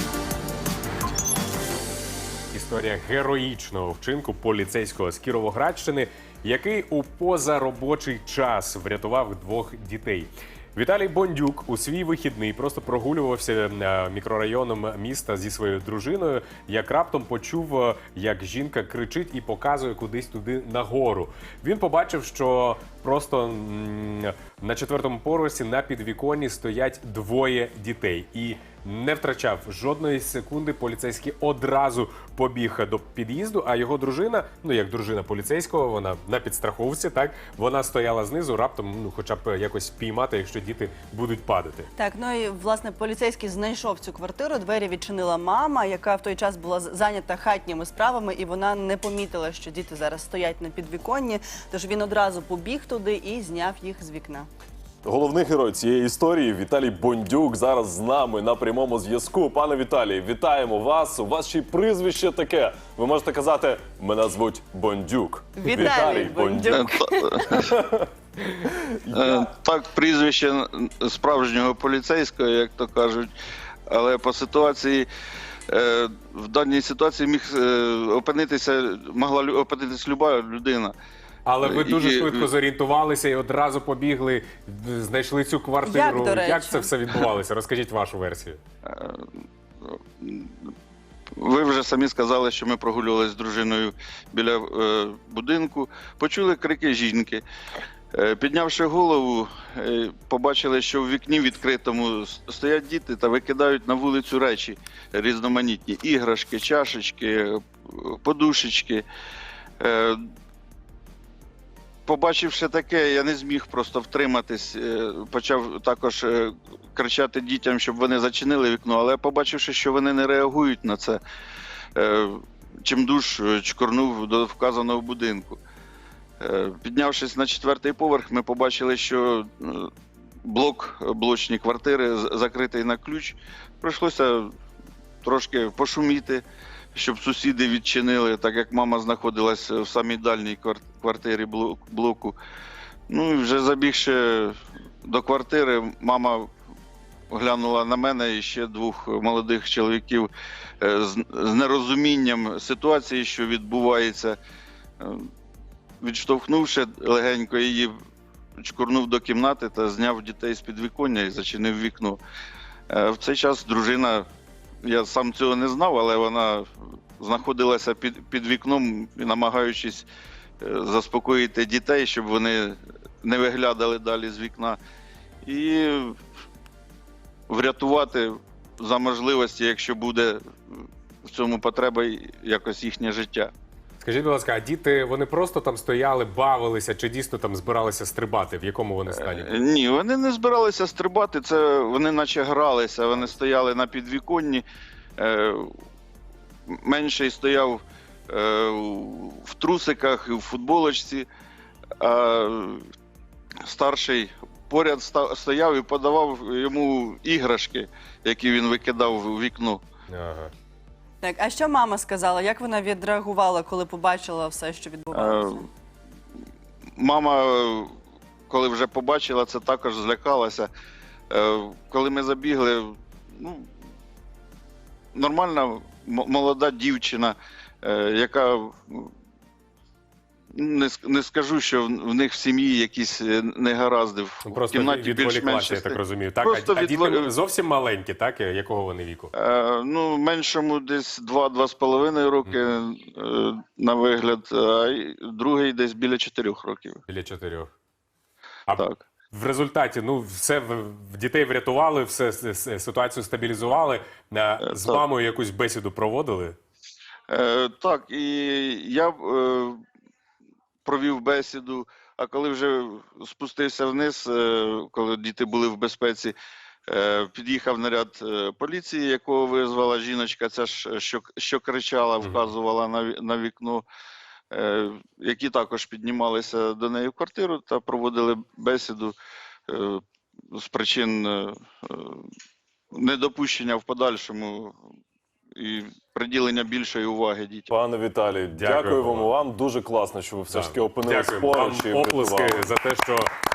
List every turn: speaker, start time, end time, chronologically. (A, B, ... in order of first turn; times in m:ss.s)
0:02.5-0:41.9 A
0:42.0-0:54.5 B
0:55.0-1:06.9 C
1:05.6-1:07.5 B
1:06.7-1:07.7 D
1:07.5-1:08.1 C
1:08.7-1:09.4 C
1:09.1-1:13.3 D
1:13.9-1:15.1 D
1:15.7-1:20.9 D
1:21.4-1:28.6 A
1:21.6-1:22.5 D
1:25.8-1:26.9 B
1:28.8-1:29.3 D
1:29.8-1:30.7 D
1:31.4-1:37.4 D
1:38.1-1:49.0 D
1:49.8-1:50.2 D
1:52.0-2:01.2 D
2:02.0-2:05.6 D
2:06.4-2:09.9 D
2:10.4-2:14.5 D
2:15.2-2:16.4 D
2:16.9-2:22.4 D
2:23.1-2:26.5 D
2:27.3-2:34.4 D
2:35.0-2:35.3 D
2:36.0-2:38.0 D
2:38.6-2:42.2 D
2:42.9-2:44.3 D
2:44.8-2:50.1 D
2:50.6-2:54.8 D
2:55.4-2:56.2 D
2:57.5-3:03.5 D
3:04.0-3:09.6 A
3:09.1-3:14.6 D
3:15.2-3:15.7 D
3:16.7-3:21.3 D
3:22.0-3:22.8 D
3:23.6-3:29.8 D
3:30.1-3:30.5 A
3:31.2-3:35.6 B
3:35.1-3:35.6 D
3:37.0-3:37.9 D
3:38.5-3:40.7 D
3:41.3-3:43.7 D
3:45.1-3:49.1 D
3:50.5-3:57.3 D
3:54.4-3:59.3 A
3:59.4-4:07.0 D
4:02.4-4:02.8 A
4:07.1-4:07.7 A
4:08.7-4:16.6 A
4:14.6-4:15.0 D
4:17.3-4:19.8 D
4:20.8-4:26.4 D
4:26.9-4:33.8 D
4:32.2-4:32.4 A
4:34.5-4:39.1 D
4:39.7-4:42.3 D
4:42.9-4:44.8 D
4:45.5-4:47.7 D
4:47.7-4:52.7 C
4:48.5-4:49.3 A
4:50.5-4:53.3 A